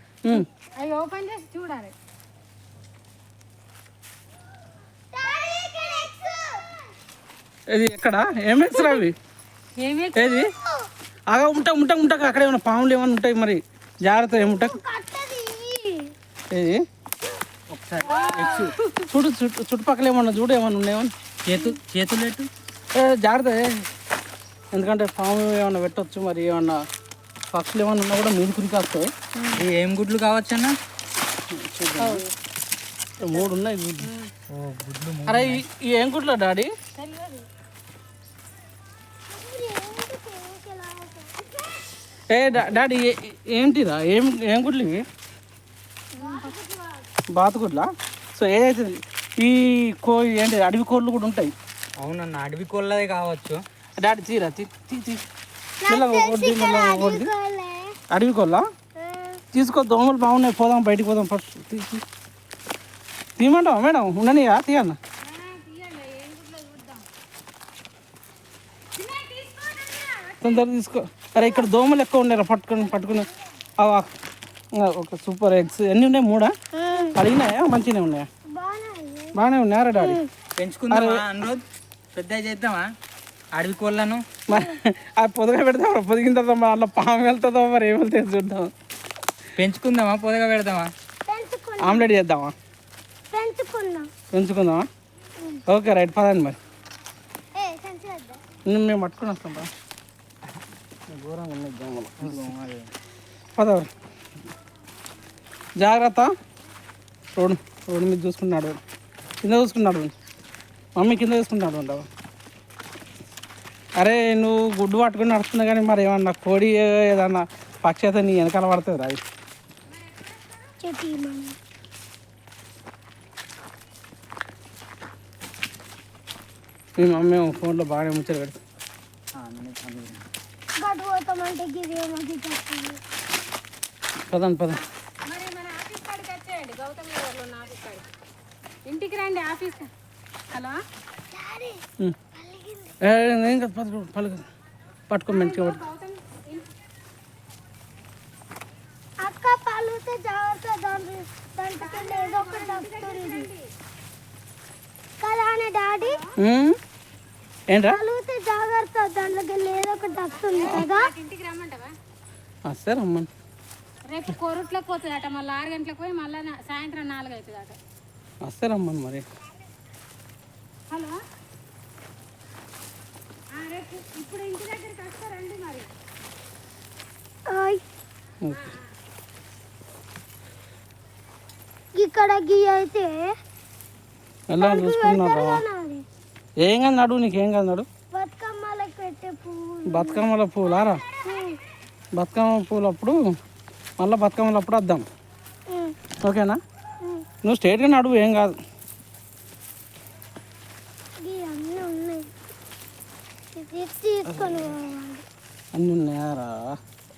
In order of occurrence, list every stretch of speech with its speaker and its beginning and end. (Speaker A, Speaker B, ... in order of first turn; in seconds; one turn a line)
Speaker A: 0.7-1.9
Speaker B: 5.1-6.8
Speaker C: 7.7-9.1
Speaker A: 8.7-9.0
Speaker A: 9.8-10.4
Speaker C: 10.1-10.5
Speaker B: 10.4-10.9
Speaker C: 11.3-14.8
Speaker B: 14.4-16.1
Speaker C: 16.5-16.8
Speaker D: 17.7-18.8
Speaker A: 18.1-19.1
Speaker C: 19.1-21.1
Speaker D: 21.4-22.5
Speaker C: 22.9-23.9
Speaker C: 24.7-26.8
Speaker C: 27.5-29.1
Speaker A: 29.4-29.6
Speaker D: 29.5-30.8
Speaker C: 31.5-32.2
Speaker A: 32.0-32.3
Speaker C: 33.2-34.1
Speaker A: 34.0-34.3
Speaker D: 34.5-35.6
Speaker C: 35.3-36.7
Speaker A: 37.0-37.5
Speaker B: 39.3-41.6
Speaker C: 42.3-45.0
Speaker B: 46.1-46.5
Speaker A: 46.2-46.8
Speaker C: 47.3-51.5
Speaker D: 52.0-53.6
Speaker C: 54.0-55.2
Speaker B: 55.8-58.0
Speaker C: 55.9-57.3
Speaker C: 58.1-58.6
Speaker B: 59.0-59.4
Speaker C: 59.5-62.0
Speaker C: 63.4-65.0
Speaker A: 65.2-67.1
Speaker A: 68.9-70.7
Speaker C: 70.4-74.1
Speaker B: 71.4-71.7
Speaker C: 74.7-76.5
Speaker B: 76.7-77.2
Speaker C: 77.1-78.3
Speaker B: 78.5-79.4
Speaker C: 79.3-80.2
Speaker B: 80.0-80.3
Speaker D: 80.6-81.6
Speaker C: 80.9-81.2
Speaker D: 82.1-82.8
Speaker D: 83.5-84.2
Speaker C: 84.5-88.7
Speaker D: 89.5-90.9
Speaker B: 91.2-92.1
Speaker C: 91.8-92.5
Speaker B: 93.3-94.1
Speaker C: 94.3-94.9
Speaker C: 95.7-96.6
Speaker B: 97.5-98.4
Speaker C: 98.7-99.7
Speaker C: 101.1-102.5
Speaker D: 102.2-102.9
Speaker C: 103.5-103.9
Speaker C: 105.8-106.3
Speaker C: 107.3-108.8
Speaker C: 109.4-110.1
Speaker C: 111.0-112.1
Speaker C: 114.0-119.2
Speaker A: 120.0-120.5
Speaker B: 120.8-121.6
Speaker C: 127.0-128.6
Speaker D: 129.3-130.2
Speaker B: 130.8-133.0
Speaker C: 134.3-134.8
Speaker A: 134.7-138.1
Speaker A: 138.8-139.9
Speaker A: 140.5-140.8
Speaker B: 141.3-142.9
Speaker C: 143.0-144.4
Speaker C: 145.1-145.8
Speaker A: 145.3-146.7
Speaker B: 149.2-153.5
Speaker A: 151.8-153.7
Speaker B: 155.2-156.2
Speaker A: 156.0-156.3
Speaker C: 156.4-156.8
Speaker C: 157.7-158.0
Speaker B: 157.8-161.1
Speaker A: 160.1-161.9
Speaker C: 162.7-163.3
Speaker A: 164.1-167.8
Speaker C: 168.4-169.2
Speaker A: 170.9-171.2
Speaker A: 173.5-175.9
Speaker B: 177.5-177.8
Speaker B: 181.9-183.3
Speaker C: 184.5-185.6
Speaker B: 184.6-186.0
Speaker C: 186.6-187.9
Speaker B: 188.1-190.3
Speaker C: 189.9-191.0
Speaker B: 191.2-191.6
Speaker C: 192.1-193.2
Speaker C: 194.0-195.1
Speaker B: 195.7-195.9
Speaker C: 196.2-196.6
Speaker C: 197.4-198.6
Speaker B: 201.2-202.3
Speaker B: 203.5-205.2
Speaker C: 204.3-204.7
Speaker C: 205.7-206.8